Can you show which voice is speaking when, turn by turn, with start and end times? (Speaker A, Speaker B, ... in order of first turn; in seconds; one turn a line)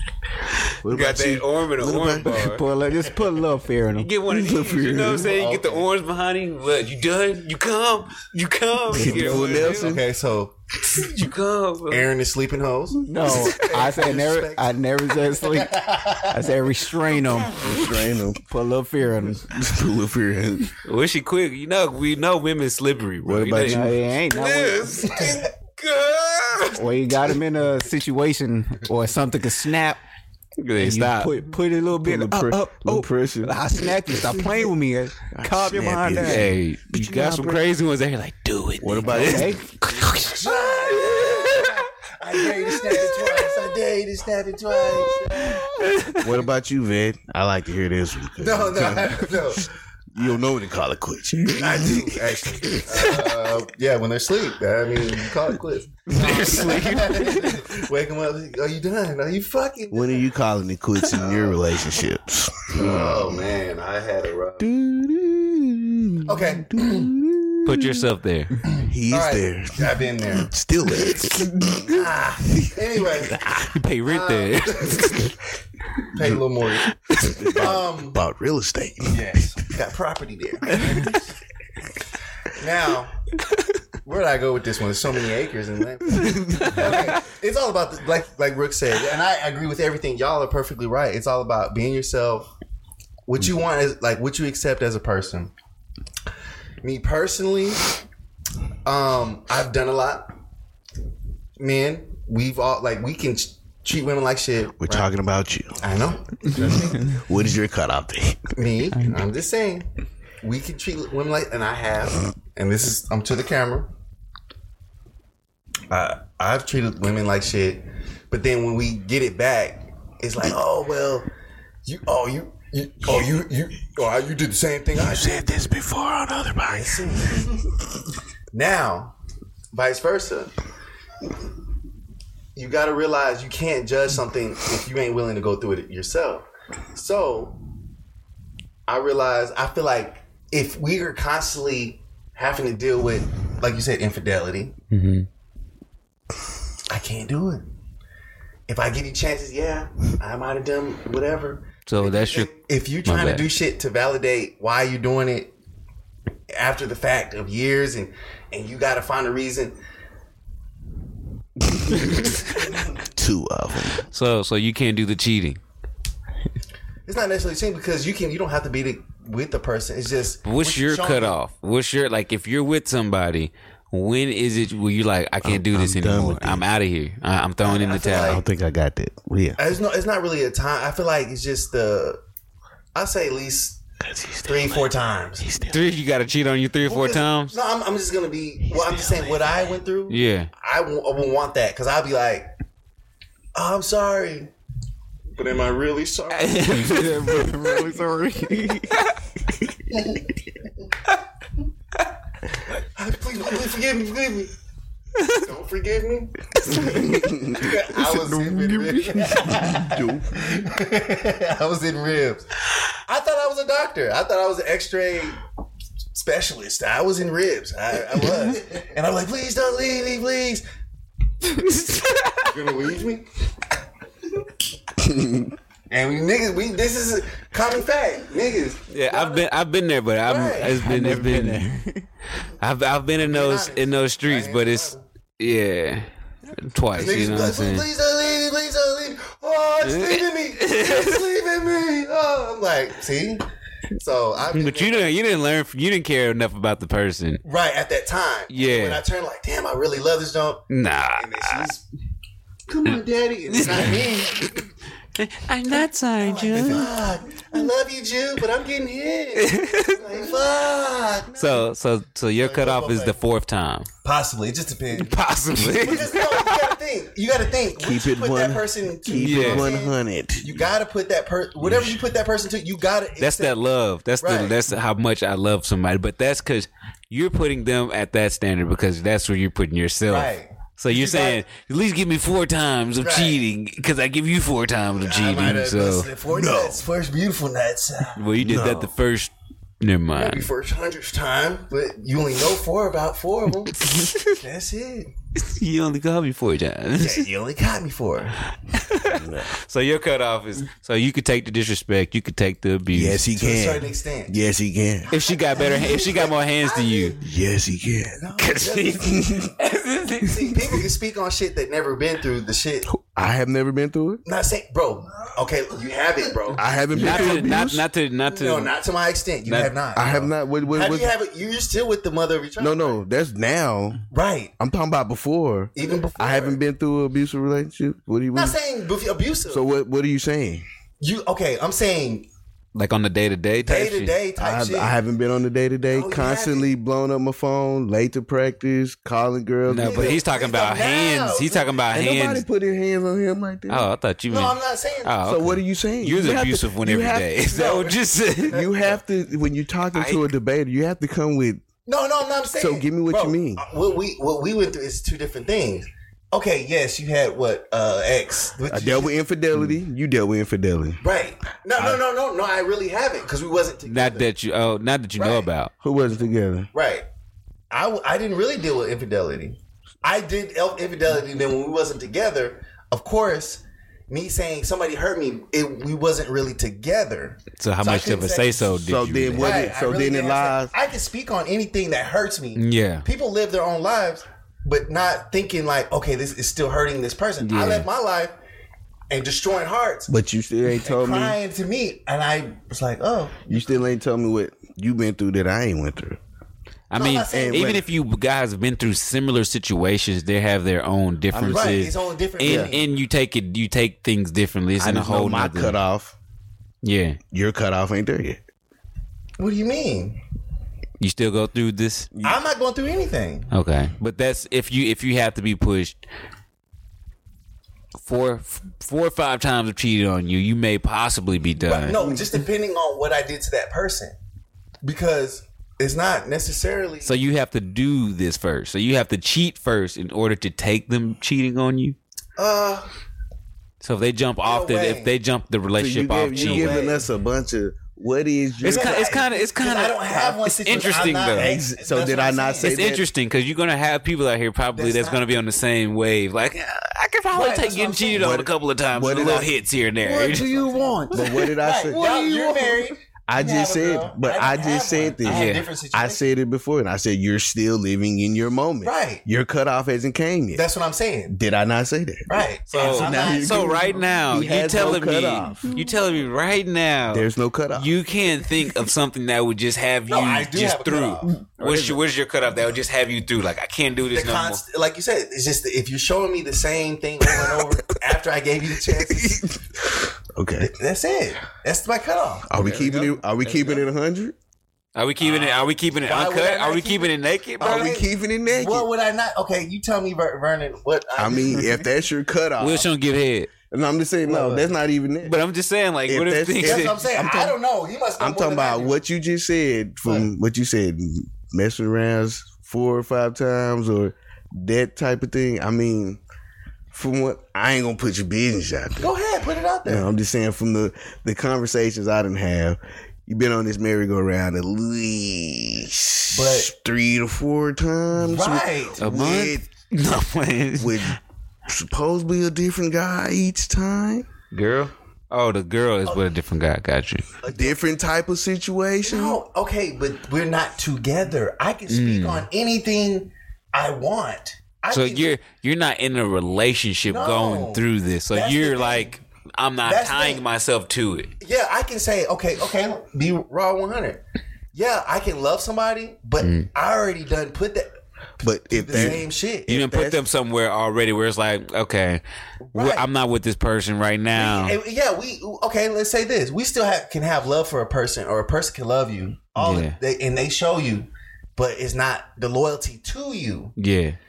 Speaker A: 0.5-2.6
Speaker B: 0.8-2.5
Speaker C: 2.3-4.1
Speaker A: 4.0-10.0
Speaker B: 4.3-5.3
Speaker D: 5.2-5.9
Speaker B: 8.9-10.1
Speaker D: 9.3-11.1
Speaker A: 10.9-12.1
Speaker D: 11.9-16.5
Speaker C: 13.1-17.8
Speaker A: 13.3-13.6
Speaker B: 17.5-18.4
Speaker C: 18.4-19.5
Speaker B: 19.5-20.7
Speaker A: 20.9-26.8
Speaker B: 23.2-24.0
Speaker C: 23.6-25.1
Speaker D: 25.1-25.4
Speaker C: 26.7-30.0
Speaker A: 30.6-31.4
Speaker C: 30.8-36.5
Speaker B: 32.0-34.7
Speaker B: 35.3-37.6
Speaker A: 36.2-41.9
Speaker B: 38.8-39.6
Speaker C: 39.1-39.7
Speaker D: 40.2-46.0
Speaker A: 42.6-43.6
Speaker A: 44.9-46.3
Speaker B: 46.2-53.1
Speaker D: 48.4-49.7
Speaker D: 51.6-60.3
Speaker A: 52.9-53.2
Speaker A: 56.1-57.7
Speaker B: 59.9-63.5
Speaker D: 61.1-61.8
Speaker D: 62.7-64.7
Speaker B: 64.6-68.1
Speaker D: 66.3-67.1
Speaker A: 67.6-68.6
Speaker D: 68.7-70.5
Speaker B: 68.8-72.1
Speaker D: 71.9-73.5
Speaker A: 73.4-75.4
Speaker D: 74.1-75.2
Speaker D: 76.1-76.9
Speaker A: 77.1-77.7
Speaker B: 77.3-79.4
Speaker D: 77.5-78.2
Speaker D: 79.1-81.3
Speaker D: 82.5-83.2
Speaker D: 84.0-92.5
Speaker A: 86.2-87.1
Speaker D: 93.3-95.5
Speaker D: 96.8-97.9
Speaker D: 98.8-100.3
Speaker D: 101.6-105.1
Speaker B: 104.8-105.8
Speaker D: 105.8-107.2
Speaker B: 106.4-108.5
Speaker D: 108.6-109.9
Speaker D: 110.4-113.9
Speaker D: 115.9-121.3
Speaker D: 121.8-125.7
Speaker B: 125.0-127.6
Speaker D: 126.7-127.5
Speaker D: 128.5-129.2
Speaker D: 129.7-130.5
Speaker D: 132.6-137.6
Speaker D: 138.9-144.8
Speaker A: 144.9-145.3
Speaker D: 146.9-147.7
Speaker D: 148.7-155.5
Speaker A: 151.9-152.5
Speaker A: 153.1-153.5
Speaker D: 156.5-159.8
Speaker B: 161.7-162.0
Speaker A: 161.9-162.5
Speaker B: 162.9-164.1
Speaker A: 164.0-165.6
Speaker D: 167.1-171.4
Speaker A: 170.4-178.4
Speaker B: 175.4-176.6
Speaker D: 177.6-178.4
Speaker B: 178.2-179.6
Speaker D: 179.6-182.2
Speaker D: 182.9-183.8
Speaker B: 184.0-185.9
Speaker D: 184.4-185.5
Speaker A: 185.7-187.6
Speaker D: 186.9-192.5
Speaker B: 188.7-189.6
Speaker A: 190.1-190.5
Speaker D: 193.6-194.5
Speaker D: 195.4-197.1
Speaker A: 196.3-197.5
Speaker C: 196.7-199.0
Speaker D: 199.9-200.2
Speaker D: 202.9-204.5
Speaker D: 205.3-212.5
Speaker B: 207.1-207.8
Speaker C: 207.9-209.9
Speaker B: 209.4-210.5
Speaker D: 213.1-215.4
Speaker D: 216.1-220.6
Speaker A: 221.6-222.4
Speaker D: 222.4-223.3
Speaker B: 225.0-225.5
Speaker D: 225.9-229.5
Speaker A: 228.9-231.6
Speaker D: 230.2-230.8
Speaker C: 230.6-232.1
Speaker A: 232.6-236.1
Speaker D: 233.2-235.0
Speaker A: 236.7-237.9
Speaker D: 236.9-243.4
Speaker A: 239.8-241.2
Speaker D: 244.0-245.1
Speaker A: 244.5-247.4
Speaker D: 247.4-250.7
Speaker A: 248.5-249.0
Speaker A: 250.7-251.7
Speaker D: 251.2-251.9
Speaker D: 252.7-254.7
Speaker A: 253.5-254.5
Speaker A: 255.2-257.1
Speaker D: 256.2-261.7
Speaker A: 259.4-260.2
Speaker A: 261.4-263.9
Speaker D: 262.4-263.2
Speaker D: 264.0-273.6
Speaker A: 264.9-266.7
Speaker B: 267.8-270.7
Speaker A: 269.1-269.7
Speaker B: 271.6-272.0
Speaker A: 273.2-286.1
Speaker D: 274.2-274.6
Speaker D: 280.1-281.4
Speaker D: 283.0-283.4
Speaker D: 285.0-288.3
Speaker B: 286.3-286.8
Speaker A: 288.2-290.5
Speaker B: 288.4-288.9
Speaker D: 290.2-295.1
Speaker A: 293.8-294.3
Speaker A: 295.4-297.3
Speaker D: 297.0-298.4
Speaker A: 298.7-303.2
Speaker B: 299.0-299.6
Speaker B: 302.9-305.1
Speaker D: 303.4-304.3
Speaker D: 305.1-307.2
Speaker A: 305.1-307.2
Speaker B: 307.2-308.3
Speaker D: 308.2-309.5
Speaker A: 308.4-310.8
Speaker B: 309.1-309.4
Speaker D: 310.3-312.9
Speaker B: 312.9-314.2
Speaker D: 314.2-317.5
Speaker B: 316.6-317.9
Speaker A: 316.9-318.7
Speaker D: 318.3-323.0
Speaker A: 319.4-319.8
Speaker B: 319.9-321.1
Speaker B: 322.6-324.0
Speaker D: 324.1-324.5
Speaker B: 324.6-328.6
Speaker D: 325.8-326.6
Speaker D: 328.3-329.6
Speaker B: 329.5-330.6
Speaker D: 331.0-332.3
Speaker A: 332.8-334.1
Speaker D: 333.6-335.0
Speaker B: 334.4-340.2
Speaker D: 335.9-336.7
Speaker A: 339.7-342.4
Speaker D: 339.8-341.8
Speaker B: 341.9-343.9
Speaker A: 343.7-348.7
Speaker D: 344.3-345.2
Speaker B: 345.2-347.3
Speaker D: 347.5-348.0
Speaker D: 348.5-349.0
Speaker B: 348.5-351.6
Speaker A: 349.9-350.2
Speaker D: 351.9-359.1
Speaker B: 352.6-353.6
Speaker B: 358.7-361.0
Speaker D: 361.0-364.3
Speaker B: 361.8-362.0
Speaker A: 363.9-365.7
Speaker D: 365.2-365.5
Speaker B: 365.8-366.7
Speaker D: 366.7-367.1
Speaker D: 367.7-378.8
Speaker A: 377.6-379.7
Speaker B: 378.8-380.7
Speaker D: 379.4-388.4
Speaker A: 382.6-383.1
Speaker A: 387.4-387.9
Speaker D: 389.1-390.1
Speaker B: 390.1-391.4
Speaker D: 390.8-393.4
Speaker B: 393.5-396.2
Speaker A: 396.9-405.8
Speaker D: 396.9-397.9
Speaker B: 397.3-397.9
Speaker B: 401.3-401.9
Speaker D: 401.4-402.9
Speaker B: 402.4-402.8
Speaker B: 404.8-406.1
Speaker A: 406.8-407.2
Speaker B: 407.3-408.4
Speaker D: 409.4-410.2
Speaker A: 411.0-412.1
Speaker B: 412.1-412.4
Speaker D: 412.2-413.5
Speaker A: 413.5-416.0
Speaker A: 418.1-422.0
Speaker D: 421.6-424.2
Speaker D: 424.8-427.1
Speaker A: 427.0-432.0
Speaker D: 432.4-432.9
Speaker A: 433.8-436.9
Speaker D: 434.4-435.1
Speaker B: 435.8-439.1
Speaker D: 436.3-437.1
Speaker A: 438.6-441.5
Speaker D: 438.6-442.7
Speaker B: 441.3-443.1
Speaker A: 442.6-450.7
Speaker D: 444.7-445.3
Speaker D: 447.3-448.3
Speaker B: 448.1-449.5
Speaker C: 450.0-452.9
Speaker D: 450.4-456.2
Speaker B: 451.1-452.1
Speaker B: 453.3-460.6
Speaker A: 455.2-455.7
Speaker D: 458.8-459.2
Speaker D: 460.5-461.4
Speaker B: 461.3-465.8
Speaker D: 462.3-464.1
Speaker A: 462.7-474.6
Speaker B: 467.1-467.9
Speaker D: 470.1-471.3
Speaker B: 471.6-472.0
Speaker D: 474.1-479.5
Speaker B: 479.0-480.7
Speaker D: 480.6-482.5
Speaker B: 482.5-484.4
Speaker A: 482.6-483.7
Speaker A: 484.9-487.9
Speaker D: 485.2-491.8
Speaker B: 487.6-488.9
Speaker B: 491.2-492.9
Speaker A: 492.6-493.5
Speaker B: 493.7-495.4
Speaker D: 494.2-494.7
Speaker A: 495.2-497.0
Speaker B: 496.1-497.6
Speaker D: 496.6-499.0
Speaker B: 498.2-506.2
Speaker B: 506.9-509.1
Speaker D: 509.0-510.1
Speaker B: 509.9-519.7
Speaker D: 516.3-516.7
Speaker D: 518.2-519.1
Speaker A: 519.0-521.1
Speaker B: 520.8-524.3
Speaker A: 524.5-527.3
Speaker D: 527.4-527.8
Speaker B: 527.5-529.4
Speaker D: 529.0-535.3
Speaker A: 531.9-532.5
Speaker A: 534.9-541.3
Speaker D: 537.1-539.1
Speaker D: 539.8-540.4
Speaker D: 541.4-544.2
Speaker D: 544.7-547.9
Speaker A: 546.4-546.7
Speaker B: 548.4-550.2
Speaker D: 548.7-549.7
Speaker A: 548.9-552.2
Speaker D: 552.7-553.0
Speaker A: 552.7-554.8
Speaker D: 554.3-563.7
Speaker A: 559.6-560.0
Speaker A: 563.8-564.2